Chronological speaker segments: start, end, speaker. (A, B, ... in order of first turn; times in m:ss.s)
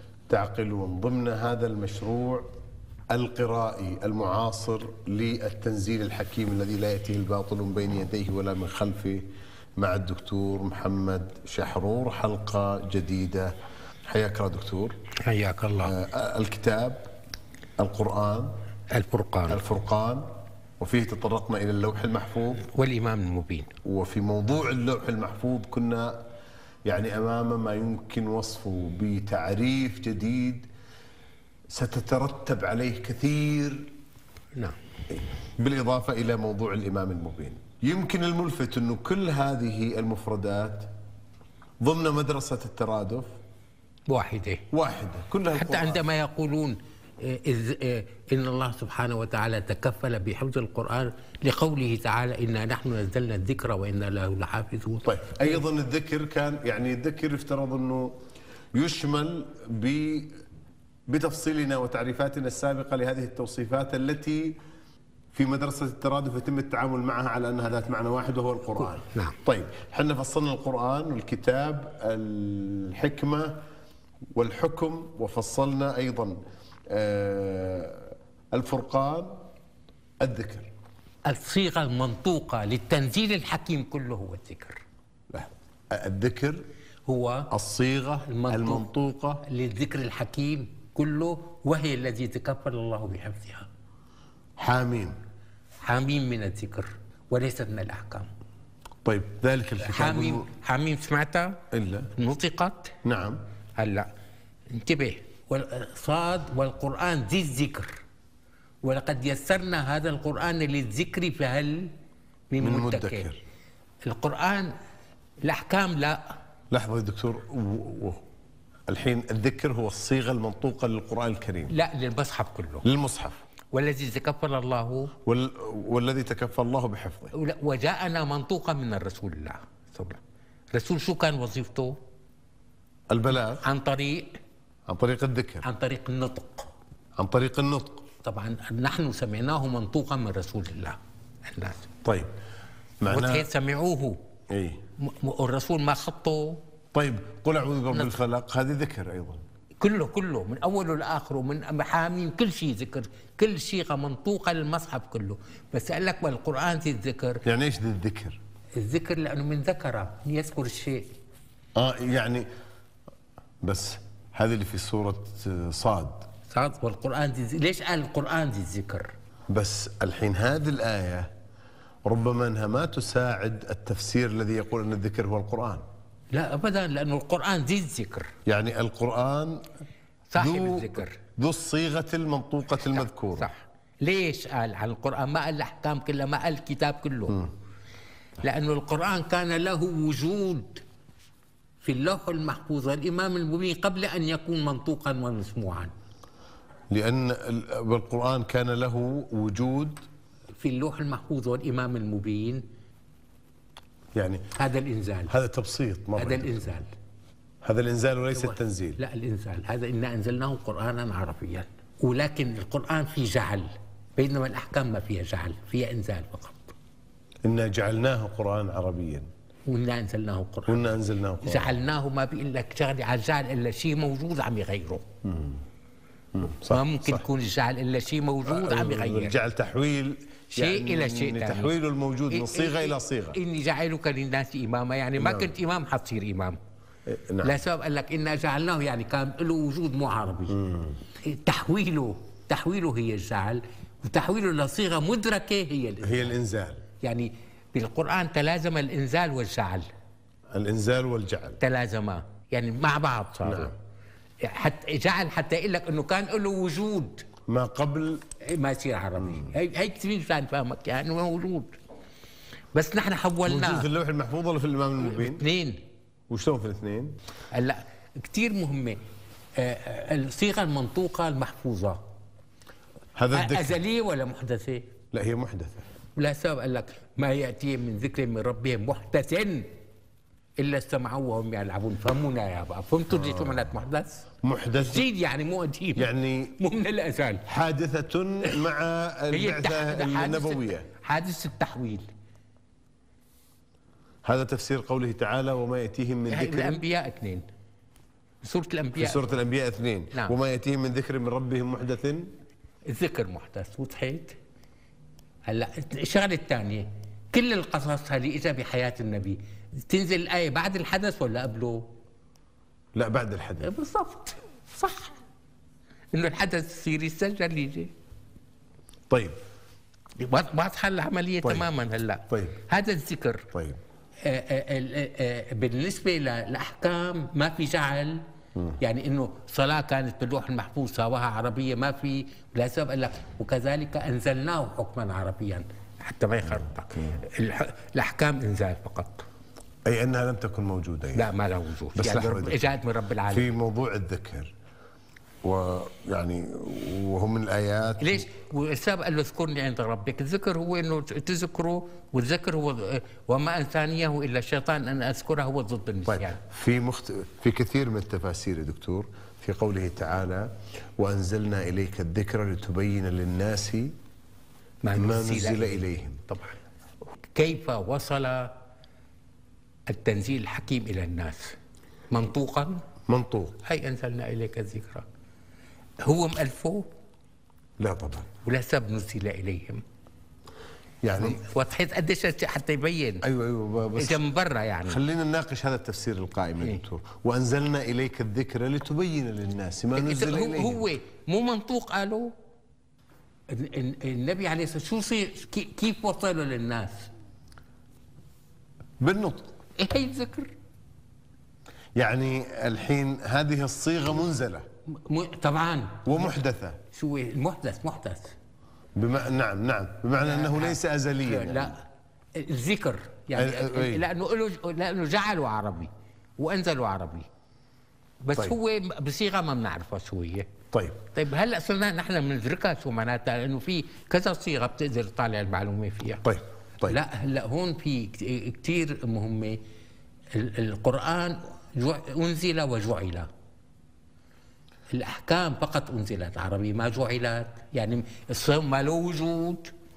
0:00.3-0:02.5 A
0:03.1-0:09.2 A
0:09.8-0:13.5 A
0:14.1-0:15.0 A
0:15.2-0:15.9 B
0:15.8-0:17.1 A
0:17.8-0:18.6 A
0:18.9-0:19.6 B
0:19.5-0:22.6 A
0:22.6-0:23.7 B
0:23.8-0:26.2 A
0:26.9-0:30.7 A
0:31.7-0:33.9 A
0:35.1-0:40.9 A
0:41.8-0:43.3 A
0:44.1-0:44.6 B
0:44.7-0:46.0 A
0:45.5-0:55.6 B
0:55.0-0:58.1 A
0:58.8-1:00.4 A
1:01.1-1:04.6 A
1:05.3-1:13.6 A
1:14.4-1:19.5 A
1:20.2-1:20.7 A
1:21.2-1:24.8 B
1:25.3-1:26.6 A
1:27.1-1:27.5 B
1:27.5-1:29.4 A
1:28.3-1:28.9 B
1:29.4-1:33.7 B
1:34.6-1:35.2 A
1:35.8-1:38.3 B
1:39.0-1:40.5 A
1:39.8-1:41.6 B
1:41.7-1:42.1 A
1:42.2-1:42.9 B
1:43.0-1:43.4 A
1:43.8-1:44.1 B
1:44.7-1:48.0 B
1:48.8-1:51.9 B
1:52.5-1:53.3 B
1:52.6-1:53.4 A
1:54.0-1:54.7 B
1:55.4-1:56.4 B
1:56.7-1:58.2 A
1:58.9-2:01.8 A
2:01.7-2:02.9 B
2:02.8-2:03.4 A
2:03.7-2:05.1 B
2:05.2-2:07.3 A
2:07.3-2:10.2 B
2:10.7-2:12.0 B
2:13.1-2:13.6 A
2:13.6-2:14.4 B
2:14.9-2:15.6 A
2:15.6-2:16.7 B
2:17.2-2:18.1 A
2:18.2-2:21.9 B
2:22.0-2:22.3 A
2:23.0-2:23.5 A
2:23.1-2:24.2 B
2:24.5-2:24.8 A
2:25.0-2:26.6 B
2:26.9-2:29.4 A
2:27.9-2:28.2 B
2:29.8-2:37.4 B
2:37.4-2:38.4 A
2:38.8-2:41.1 B
2:41.8-2:42.5 A
2:43.6-2:46.3 A
2:46.5-2:49.1 B
2:49.5-2:51.3 A
2:52.1-2:55.8 A
2:56.3-2:58.3 B
2:58.5-2:59.7 A
3:00.3-3:01.2 B
3:00.4-3:03.5 A
3:03.0-3:07.5 B
3:08.4-3:10.8 B
3:11.8-3:15.9 B
3:16.9-3:20.1 A
3:20.6-3:22.6 B
3:24.2-3:24.5 A
3:24.6-3:25.3 B
3:25.3-3:26.6 A
3:26.2-3:26.9 B
3:27.6-3:29.0 A
3:28.4-3:36.8 B
3:37.4-3:39.3 A
3:39.7-3:45.1 B
3:40.7-3:41.8 A
3:45.2-3:45.6 A
3:46.4-3:47.2 A
3:46.7-3:49.4 B
3:48.4-3:53.4 A
3:50.6-3:51.7 B
3:52.3-3:56.6 B
3:55.2-3:55.5 A
3:57.1-3:57.6 A
3:57.4-4:00.6 B
4:00.5-4:01.0 A
4:01.2-4:06.4 B
4:06.0-4:06.8 A
4:07.0-4:09.9 B
4:10.5-4:11.6 A
4:11.6-4:13.8 B
4:13.4-4:13.7 A
4:14.4-4:17.2 B
4:17.5-4:18.2 A
4:18.4-4:21.8 B
4:22.7-4:23.9 B
4:23.5-4:25.4 A
4:25.1-4:25.8 B
4:26.3-4:27.2 A
4:27.5-4:29.0 B
4:29.6-4:32.1 B
4:33.2-4:33.8 A
4:33.3-4:34.9 B
4:35.1-4:35.8 A
4:36.2-4:39.7 B
4:40.6-4:44.3 B
4:43.1-4:43.6 A
4:44.4-4:45.1 A
4:44.9-4:47.4 B
4:46.0-4:46.6 A
4:47.5-4:50.9 A
4:49.3-4:52.1 B
4:54.2-4:56.8 A
4:56.3-4:57.4 B
4:58.4-4:59.3 B
4:59.0-5:02.3 A
5:02.9-5:04.4 B
5:05.5-5:11.9 B
5:12.9-5:13.7 A
5:13.6-5:15.1 B
5:16.1-5:17.9 B
5:19.1-5:19.4 A
5:20.2-5:23.5 B
5:22.3-5:22.6 A
5:23.5-5:23.8 A
5:24.2-5:28.2 B
5:28.8-5:39.3 B
5:39.8-5:41.3 A
5:41.2-5:43.5 B
5:42.0-5:42.6 A
5:43.3-5:44.5 A
5:45.4-5:48.3 A
5:48.0-5:56.4 B
5:56.1-6:03.9 A
6:04.8-6:06.6 B
6:04.9-6:06.2 A
6:07.2-6:08.5 B
6:09.9-6:11.6 B
6:12.1-6:12.8 B
6:13.1-6:13.6 A
6:13.6-6:15.1 B
6:16.0-6:16.9 B
6:17.8-6:18.3 A
6:18.4-6:19.8 B
6:21.0-6:21.4 A
6:21.2-6:23.2 B
6:23.2-6:24.2 A
6:24.0-6:25.0 B
6:24.9-6:30.9 A
6:30.0-6:32.3 B
6:33.5-6:37.1 B
6:39.0-6:39.6 A
6:39.8-6:40.5 B
6:42.0-6:44.7 A
6:44.9-6:46.3 B
6:46.0-6:46.8 A
6:46.9-6:48.4 B
6:49.0-6:51.7 A
6:50.2-6:51.8 B
6:52.4-6:57.3 B
6:53.4-6:54.1 A
6:58.2-7:00.5 B
7:00.7-7:01.0 A
7:01.1-7:06.2 B
7:06.2-7:07.0 A
7:06.8-7:09.6 B
7:10.3-7:13.3 B
7:14.9-7:19.7 B